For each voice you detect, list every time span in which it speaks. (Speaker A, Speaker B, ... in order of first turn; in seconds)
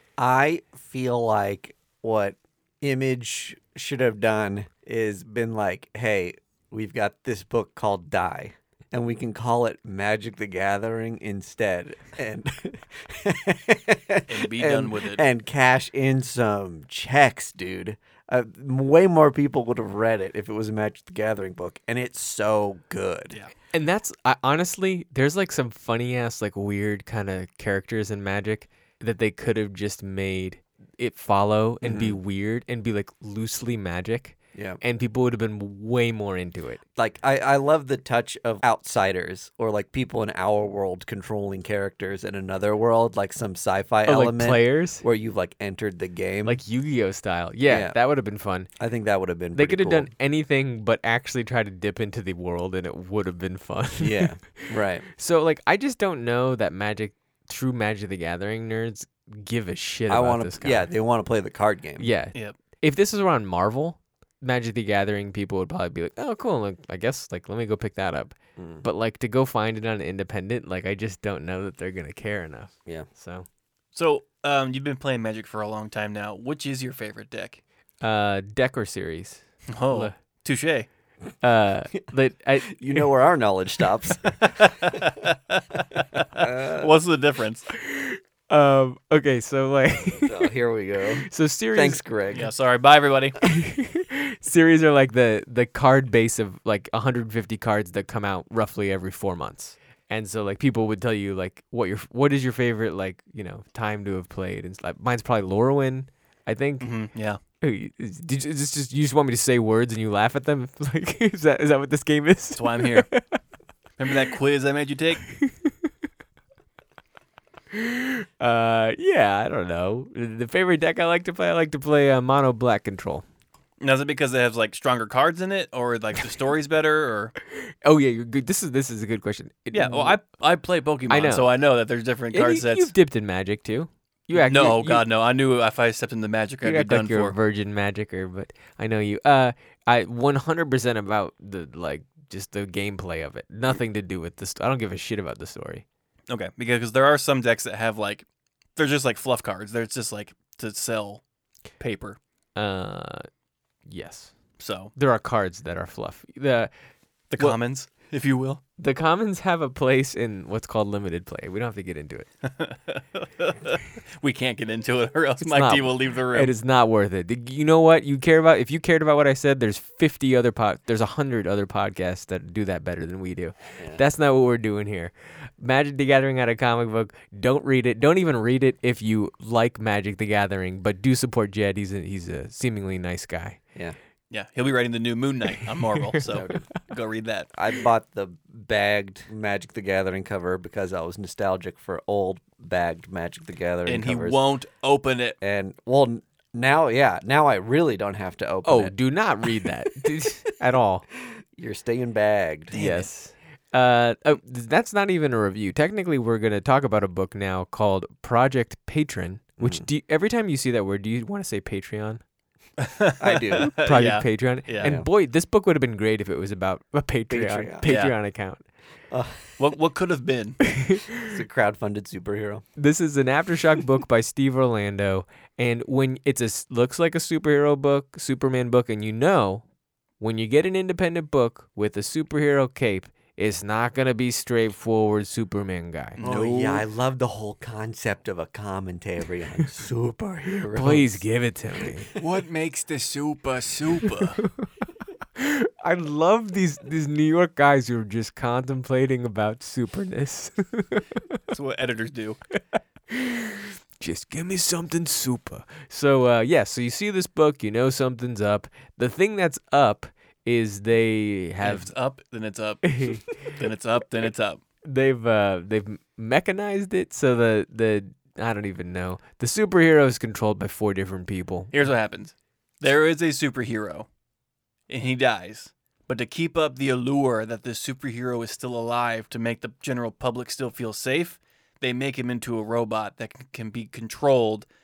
Speaker A: 0.2-23.4, 31.8-32.2, 34.5-34.8, 37.0-46.6, 47.7-48.0, 48.8-50.1, 54.0-55.0, 60.1-62.1, 68.6-68.8, 82.7-84.9, 86.3-87.0, 90.2-92.5, 186.3-186.7, 187.6-194.4, 195.4-198.9, 201.3-202.7, 213.2-213.7, 214.8-215.1, 217.3-217.9, 219.1-219.8, 221.2-222.6, 236.2-241.2, 241.8-242.1
Speaker B: 14.3-15.2, 73.9-77.6, 79.7-80.9, 84.4-87.7, 92.3-93.4, 106.8-107.4, 112.5-113.1, 114.0-115.3, 123.8-127.3, 129.7-132.9, 134.3-137.3, 146.3-151.2, 151.8-152.2, 154.6-154.9, 157.3-158.6, 162.4-166.5, 184.3-187.5, 193.8-195.4, 202.7-203.1, 212.8-214.9, 217.8-218.1, 219.6-220.6, 236.2-236.8, 242.2-244.4, 251.5-252.4, 261.6-264.6, 271.7-274.1, 274.9-284.6
Speaker C: 23.7-36.8, 44.0-45.0, 46.4-48.7, 49.5-60.9, 62.0-73.5, 78.0-80.1, 81.4-82.8, 87.7-90.5, 91.3-92.0, 93.4-106.9, 107.6-113.4, 115.3-115.7, 117.7-123.2, 127.5-130.2, 131.1-131.5, 132.3-135.1, 136.6-145.8, 152.6-153.3, 153.8-154.3, 154.9-156.7, 158.8-162.3, 165.4-183.6, 198.6-201.1, 202.7-212.2, 213.6-218.6, 220.6-221.3, 222.8-229.6, 230.2-236.2, 240.7-242.1, 244.4-244.7, 245.3-251.3, 253.1-261.9, 262.8-263.6, 264.8-271.7